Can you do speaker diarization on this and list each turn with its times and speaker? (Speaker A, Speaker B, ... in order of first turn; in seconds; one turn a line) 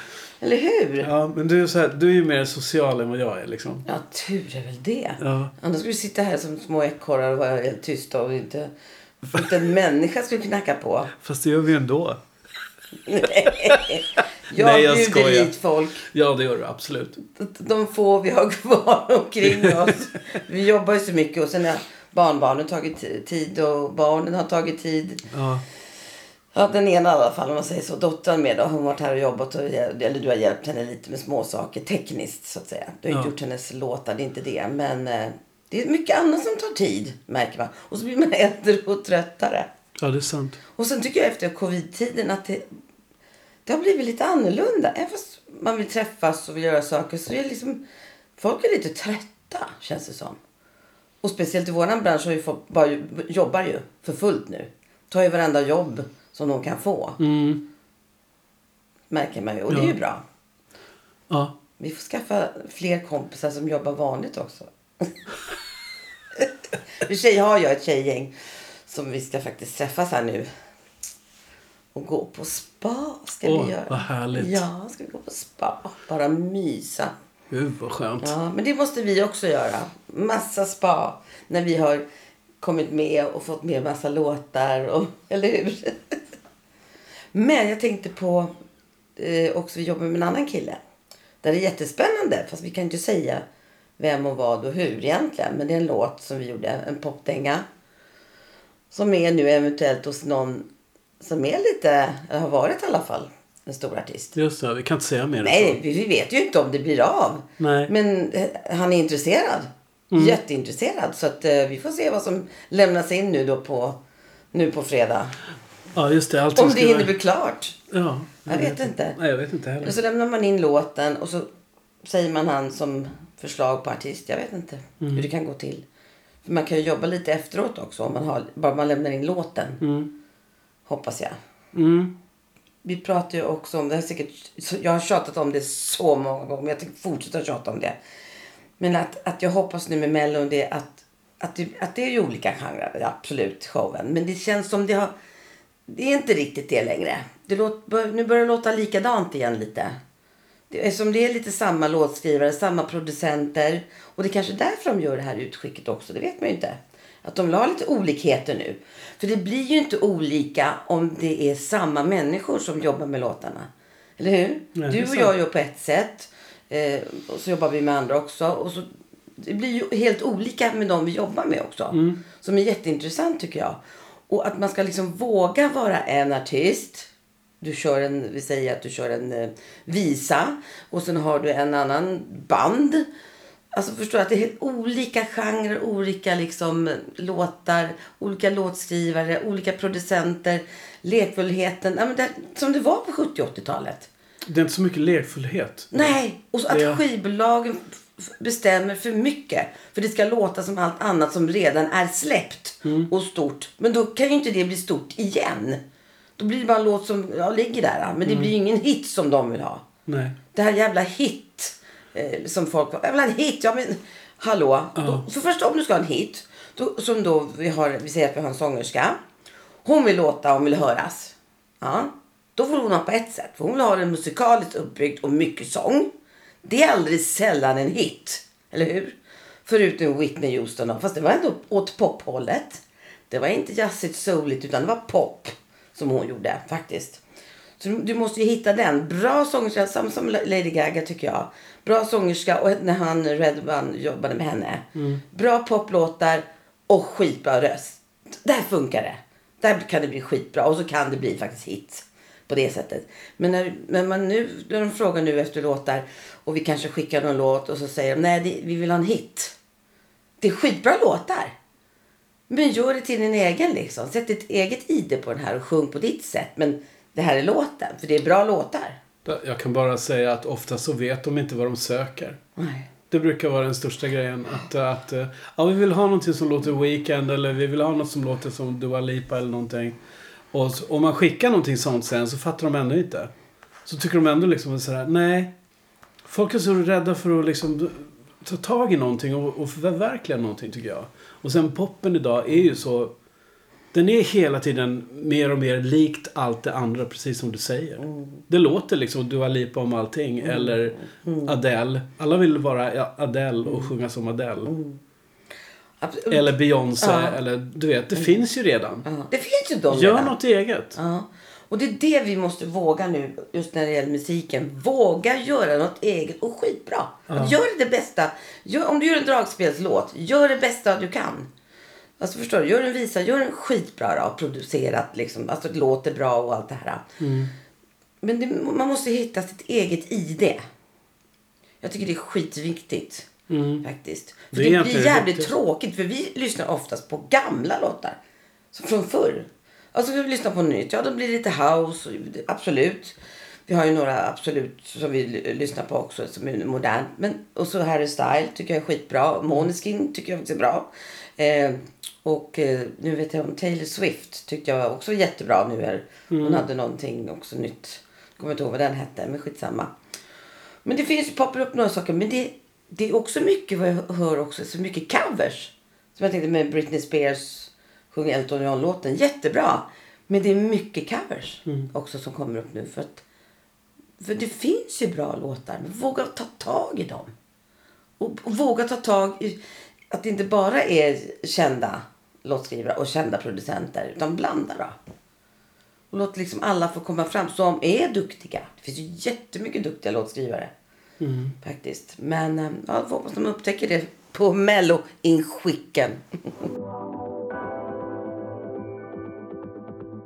Speaker A: 0.4-1.1
Speaker B: 1.0-3.8
Speaker A: 3.9-8.7
Speaker B: 5.2-5.5
Speaker A: 9.2-11.1
Speaker B: 11.2-12.2
Speaker A: 13.1-16.1
Speaker B: 13.5-13.8
Speaker B: 14.5-17.2
Speaker A: 17.2-25.3
Speaker B: 25.3-25.6
Speaker A: 26.5-39.7
Speaker B: 40.0-40.6
Speaker A: 40.8-42.7
Speaker A: 43.7-47.8
Speaker A: 48.4-50.4
Speaker A: 51.2-57.2
Speaker B: 57.2-57.6
Speaker A: 59.1-60.2
Speaker B: 59.7-60.0
Speaker B: 61.3-61.6
Speaker A: 61.8-65.2
Speaker A: 67.0-70.5
Speaker A: 71.9-77.2
Speaker B: 73.4-74.7
Speaker B: 77.5-78.3
Speaker A: 78.2-82.0
Speaker A: 82.6-86.2
Speaker A: 87.3-88.5
Speaker A: 89.2-90.8
Speaker A: 91.4-93.5
Speaker A: 94.0-97.7
Speaker A: 98.9-100.7
Speaker A: 101.2-104.4
Speaker B: 104.3-105.8
Speaker A: 105.4-114.0
Speaker B: 107.6-107.9
Speaker B: 110.1-110.4
Speaker A: 114.5-115.4
Speaker B: 116.0-117.1
Speaker A: 116.5-117.8
Speaker B: 117.9-120.0
Speaker A: 118.5-119.2
Speaker A: 119.8-121.5
Speaker A: 122.0-125.8
Speaker B: 125.0-125.3
Speaker A: 126.4-129.8
Speaker B: 129.8-130.1
Speaker A: 130.9-131.4
Speaker B: 131.7-132.2
Speaker A: 132.8-138.0
Speaker A: 138.8-145.1
Speaker A: 145.9-150.0
Speaker A: 150.7-168.9
Speaker B: 164.8-165.3
Speaker A: 169.4-177.1
Speaker B: 171.9-172.2
Speaker A: 177.6-183.1
Speaker A: 183.7-194.1
Speaker B: 194.5-196.2
Speaker A: 195.9-205.8
Speaker B: 196.7-197.0
Speaker B: 202.8-203.1
Speaker A: 206.4-209.9
Speaker B: 208.2-208.5
Speaker B: 210.1-210.4
Speaker A: 210.5-219.2
Speaker B: 215.0-215.2
Speaker A: 219.8-226.1
Speaker A: 226.6-237.2
Speaker A: 237.8-259.6
Speaker B: 245.0-245.2
Speaker A: 260.4-261.6
Speaker A: 262.5-269.0
Speaker B: 269.2-272.4
Speaker A: 272.6-272.9
Speaker B: 273.1-280.0
Speaker B: 280.5-283.3
Speaker B: 283.9-285.5
Speaker B: 286.2-293.1
Speaker B: 293.9-304.7
Speaker A: 298.0-298.4
Speaker A: 300.4-301.6
Speaker A: 303.6-303.9
Speaker A: 304.7-305.0
Speaker A: 306.0-307.4
Speaker B: 306.3-309.1
Speaker A: 309.1-310.4
Speaker B: 309.9-311.0
Speaker A: 310.9-321.5
Speaker B: 317.3-317.6
Speaker A: 322.2-327.1
Speaker B: 327.2-327.5
Speaker A: 328.2-330.6
Speaker A: 331.8-338.2
Speaker B: 333.5-333.8
Speaker B: 334.5-335.5
Speaker A: 338.7-359.9
Speaker B: 356.3-356.6
Speaker A: 360.9-373.2
Speaker A: 374.2-377.3
Speaker A: 378.2-385.0
Speaker A: 386.1-390.7
Speaker B: 391.2-391.6
Speaker A: 391.6-396.2